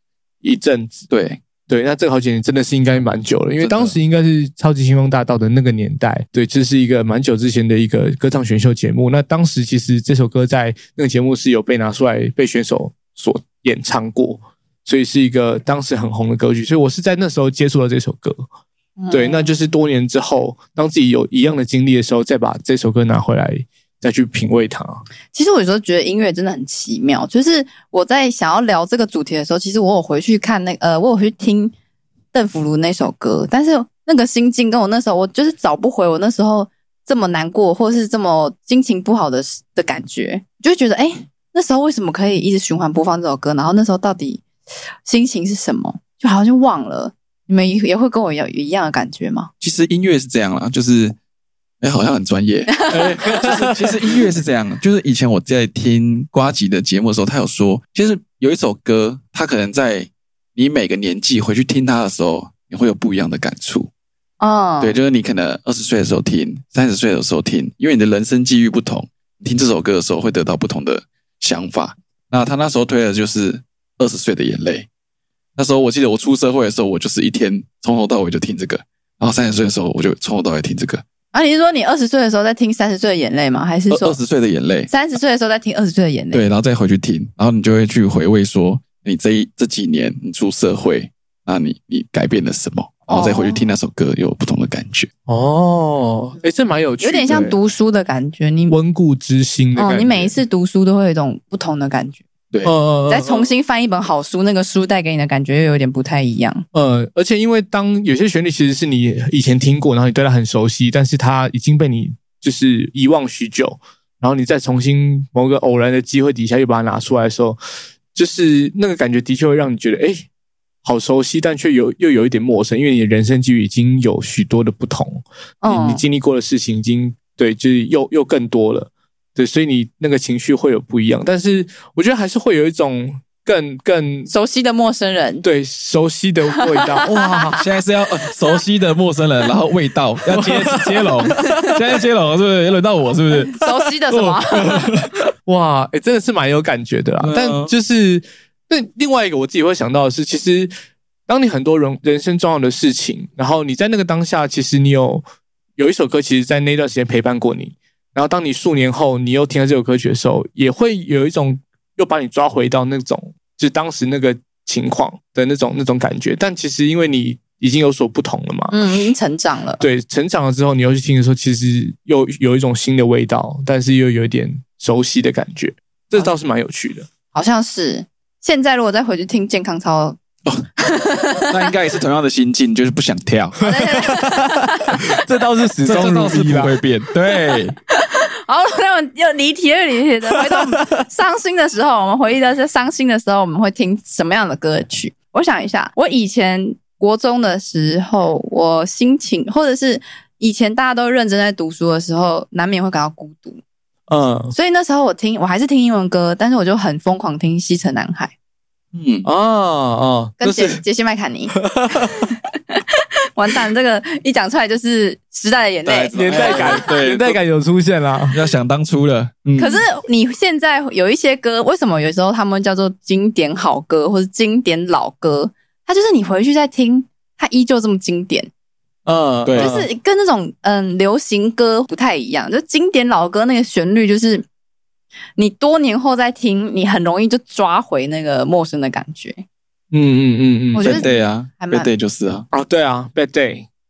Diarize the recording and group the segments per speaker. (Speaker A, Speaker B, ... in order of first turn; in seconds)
Speaker A: 0.4-1.1, 1.7-18.4, 19.1-25.0, 53.3-53.9, 95.3-97.5, 98.7-100.4, 102.6-103.5, 106.7-117.6, 118.1-120.3, 120.8-134.3, 135.4-137.6, 140.3-141.8, 145.4-150.7, 151.3-155.2, 155.8-168.8, 169.8-177.1, 183.7-186.8, 190.5-191.0, 204.1-204.6, 209.2-210.8, 211.5-212.4, 216.1-218.4, 229.1-229.9, 239.9-241.0, 242.5-243.7
Speaker B: 1.1-1.4, 3.6-4.0, 49.6-51.1, 51.8-63.9, 64.8-74.9, 75.6-81.0, 83.9-84.9, 86.3-95.1, 137.5-143.6, 144.1-145.1, 147.2-147.7, 181.4-183.7, 185.8-187.8, 208.9-209.3, 215.8-217.4, 218.3-219.8, 229.4-229.7, 240.8-242.5
Speaker C: 19.0-19.5, 25.3-31.7, 32.3-44.4, 45.0-49.5, 52.8-53.3, 64.4-65.0, 81.3-84.2, 84.9-86.5, 93.1-93.7, 97.0-98.8, 99.8-102.2, 103.1-106.6, 125.6-126.0, 134.3-135.4, 136.6-137.6, 143.5-144.8, 168.7-169.8, 177.3-180.2, 180.8-181.7, 183.6-185.0, 187.9-203.6, 204.5-208.3, 210.4-212.1, 213.4-216.8, 219.6-228.5, 229.6-234.4, 235.4-239.4, 240.8-241.9